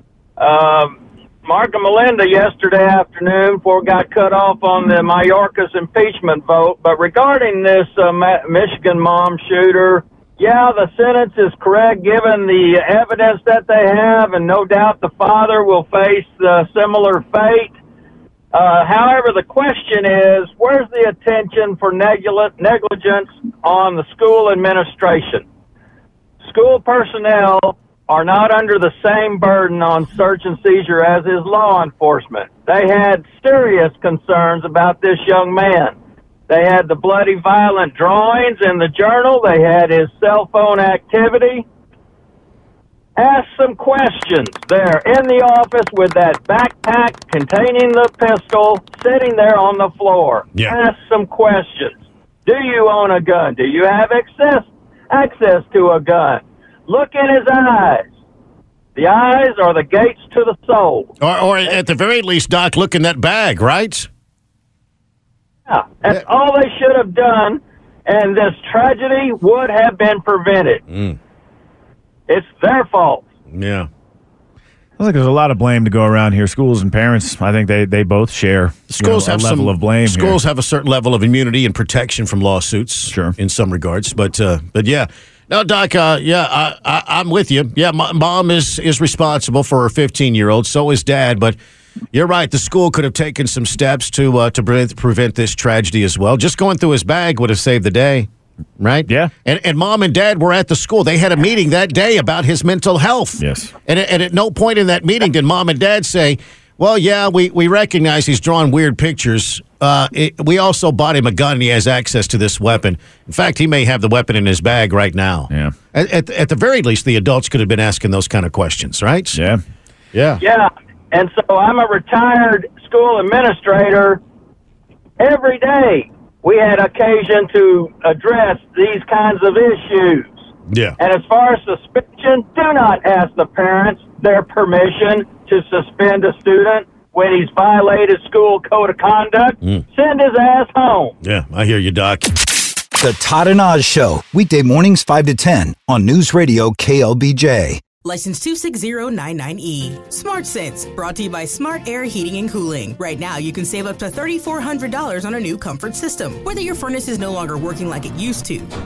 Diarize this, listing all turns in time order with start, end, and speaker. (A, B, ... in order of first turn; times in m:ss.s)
0:00.4-0:17.7 A
0:18.5-0:25.4 A
0:26.4-0:35.9 A
0:36.5-0:41.6 A
0:43.2-0:51.9 A
0:52.4-0:58.1 A
0:59.0-1:01.1 A
1:01.2-1:04.1 B
1:05.7-1:10.8 A
1:10.9-1:11.2 B
1:12.3-1:13.2 A
1:13.5-1:13.9 B
1:15.0-1:20.4 C
1:18.9-1:31.6 B
1:23.1-1:23.3 C
1:32.1-1:38.3 B
1:38.8-1:59.4 B
1:43.4-1:43.7 C
1:59.3-1:59.6 C
2:00.1-2:00.4 B
2:00.4-2:04.2 A
2:05.2-2:10.4 A
2:10.7-2:11.0 B
2:11.0-2:21.1 A
2:21.2-2:22.3 B
2:23.0-2:27.8 D
2:28.0-2:38.7 E